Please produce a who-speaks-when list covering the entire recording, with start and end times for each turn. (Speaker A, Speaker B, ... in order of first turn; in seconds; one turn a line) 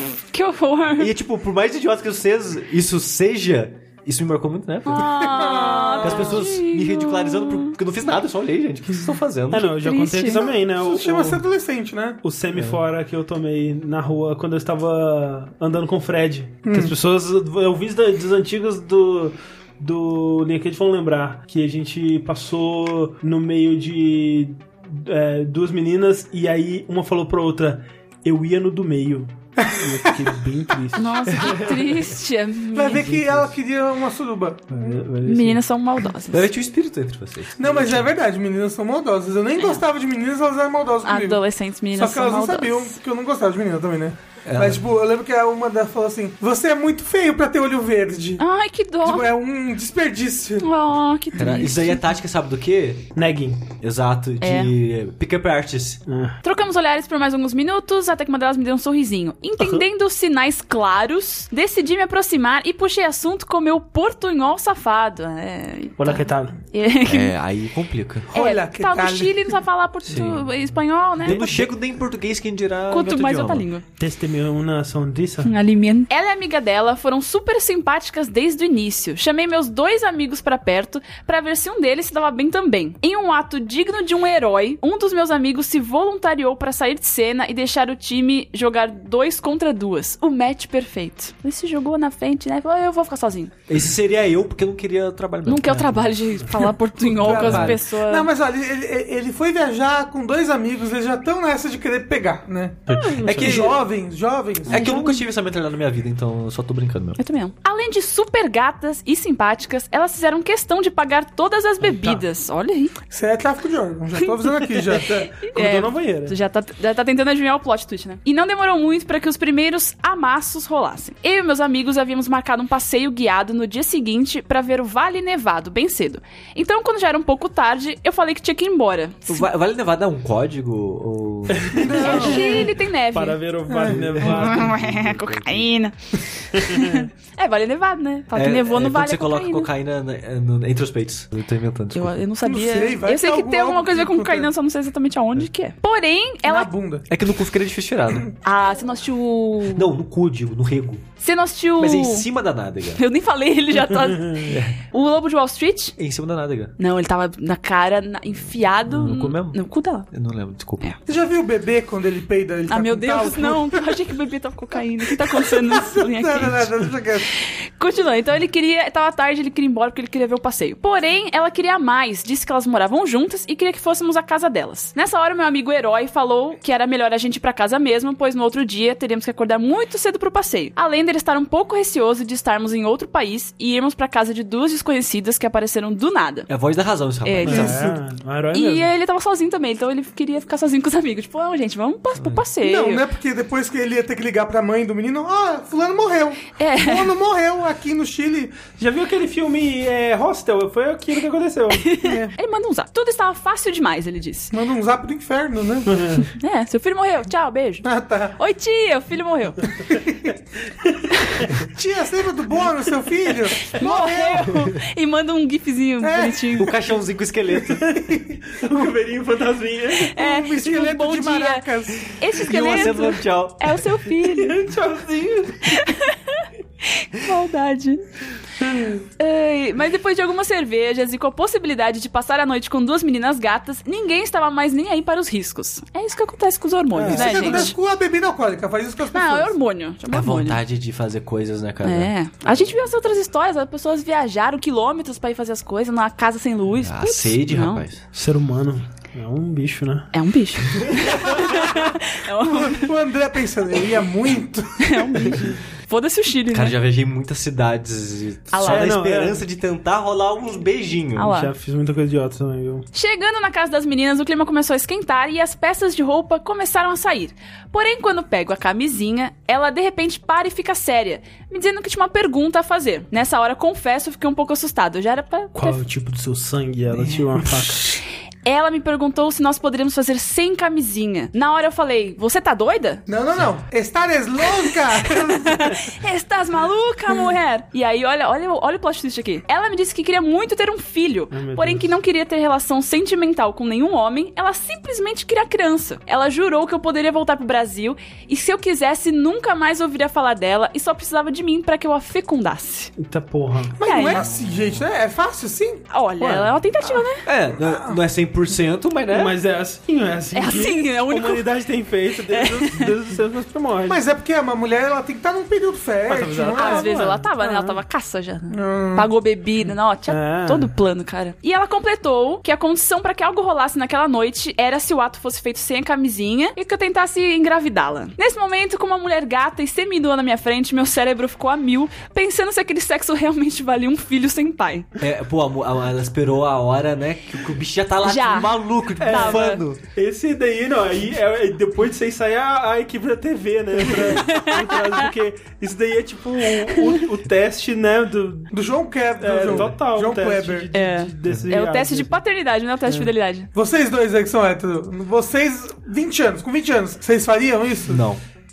Speaker A: 0.3-1.1
Speaker B: 1.0-5.3
Speaker A: 4.9-7.7
Speaker C: 5.1-6.4
Speaker B: 6.0-9.7
Speaker D: 9.5-11.4
Speaker A: 9.7-10.5
Speaker C: 10.3-12.2
Speaker D: 12.2-32.2
Speaker C: 16.6-16.9
Speaker C: 29.6-30.3
Speaker A: 31.0-33.2
Speaker C: 32.7-34.7
Speaker D: 33.1-33.5
Speaker D: 34.7-35.6
Speaker A: 35.2-36.5
Speaker B: 36.3-38.1
Speaker C: 37.6-48.4
Speaker A: 39.6-39.8
Speaker A: 41.0-43.0
Speaker B: 44.5-44.8
Speaker A: 48.4-49.3
Speaker C: 49.0-50.7
Speaker A: 50.6-52.0
Speaker B: 51.4-53.1
Speaker D: 53.2-53.6
Speaker B: 53.8-56.0
Speaker A: 54.4-54.7
Speaker D: 56.1-56.4
Speaker A: 56.4-67.3
Speaker D: 59.6-59.9
Speaker D: 66.0-66.5
Speaker B: 67.0-68.3
Speaker C: 68.3-69.6
Speaker A: 68.3-71.7
Speaker B: 70.1-70.5
Speaker B: 71.2-73.7
Speaker A: 72.9-73.8
Speaker D: 74.0-75.5
Speaker A: 75.4-93.5
Speaker B: 93.7-96.1
Speaker A: 95.5-98.3
Speaker D: 96.4-96.7
Speaker C: 97.2-105.0
Speaker B: 97.2-97.8
Speaker D: 102.9-103.8
Speaker B: 102.9-103.8
Speaker B: 104.7-107.2
Speaker A: 104.7-105.2
Speaker A: 107.2-113.0
Speaker D: 111.8-112.2
Speaker C: 113.1-115.4
Speaker D: 115.4-116.4
Speaker A: 115.4-129.5
Speaker B: 129.3-132.4
Speaker D: 131.5-134.8
Speaker C: 131.8-132.7
Speaker A: 132.0-133.4
Speaker C: 133.7-134.1
Speaker B: 133.8-135.7
Speaker A: 134.2-139.7
Speaker D: 136.5-137.1
Speaker B: 138.3-142.2
Speaker A: 141.9-146.7
Speaker C: 142.4-144.5
Speaker C: 146.4-147.1
Speaker B: 147.1-148.3
Speaker A: 148.4-149.9
Speaker B: 149.7-151.1
Speaker A: 151.2-152.3
Speaker B: 151.8-153.0
Speaker A: 152.9-156.0
Speaker D: 153.9-154.4
Speaker B: 154.5-154.8
Speaker B: 156.0-156.8
Speaker A: 156.8-160.1
Speaker B: 158.9-160.9
Speaker C: 161.1-164.0
Speaker A: 162.7-166.7
Speaker C: 165.1-167.3
Speaker A: 167.3-186.5
Speaker B: 186.5-187.8
Speaker A: 187.2-187.8
Speaker D: 187.5-188.9
Speaker C: 187.5-188.0
Speaker A: 188.5-193.1
Speaker B: 192.2-192.5
Speaker C: 192.6-198.6
Speaker A: 196.6-197.1
Speaker D: 198.8-201.9
Speaker A: 201.8-204.5
Speaker C: 202.0-202.3
Speaker C: 204.5-205.9
Speaker D: 205.9-206.3
Speaker A: 206.4-209.6
Speaker C: 207.8-208.4
Speaker C: 209.9-210.3
Speaker D: 210.7-211.5
Speaker A: 211.1-211.5
Speaker C: 211.6-214.7
Speaker A: 213.6-216.8
Speaker C: 216.0-216.6
Speaker B: 216.6-217.9
Speaker C: 217.7-218.9
Speaker D: 218.5-220.1
Speaker C: 220.1-222.2
Speaker A: 220.1-224.6
Speaker B: 222.4-223.8
Speaker D: 224.2-225.8
Speaker A: 225.7-228.1
Speaker D: 228.6-229.1
Speaker A: 229.2-237.7
Speaker D: 236.9-237.7
Speaker C: 237.1-239.5
Speaker A: 239.1-240.6
Speaker B: 240.1-242.7
Speaker A: 241.8-247.8
Speaker B: 246.8-248.0
Speaker D: 248.1-250.1
Speaker A: 250.1-252.9
Speaker C: 252.4-255.5
Speaker A: 254.8-256.8
Speaker B: 256.5-261.4
Speaker A: 258.5-258.9
Speaker D: 258.6-259.4
Speaker A: 261.2-261.5
Speaker D: 261.2-262.9
Speaker A: 262.9-275.8
Speaker D: 275.6-278.0
Speaker A: 278.4-283.0
Speaker C: 283.1-286.0
Speaker A: 285.1-302.9
Speaker D: 291.3-291.9
Speaker D: 303.0-303.7
Speaker C: 303.8-305.9
Speaker A: 303.8-304.2
Speaker A: 305.9-307.2
Speaker B: 306.2-306.5
Speaker B: 307.2-309.4
Speaker C: 307.6-308.0
Speaker D: 309.1-314.0
Speaker A: 310.3-311.5
Speaker A: 312.3-312.9
Speaker C: 313.9-317.0
Speaker D: 316.1-317.8
Speaker A: 316.6-334.9
Speaker C: 318.5-319.1
Speaker D: 320.1-320.7
Speaker B: 335.0-339.8
Speaker A: 338.0-339.6
Speaker D: 339.0-348.5
Speaker A: 344.1-345.1
Speaker A: 346.6-347.0
Speaker C: 348.5-350.7
Speaker D: 349.2-352.2
Speaker B: 349.4-349.7
Speaker A: 350.7-353.5
Speaker B: 351.2-351.5
Speaker C: 353.5-358.0
Speaker B: 357.9-358.2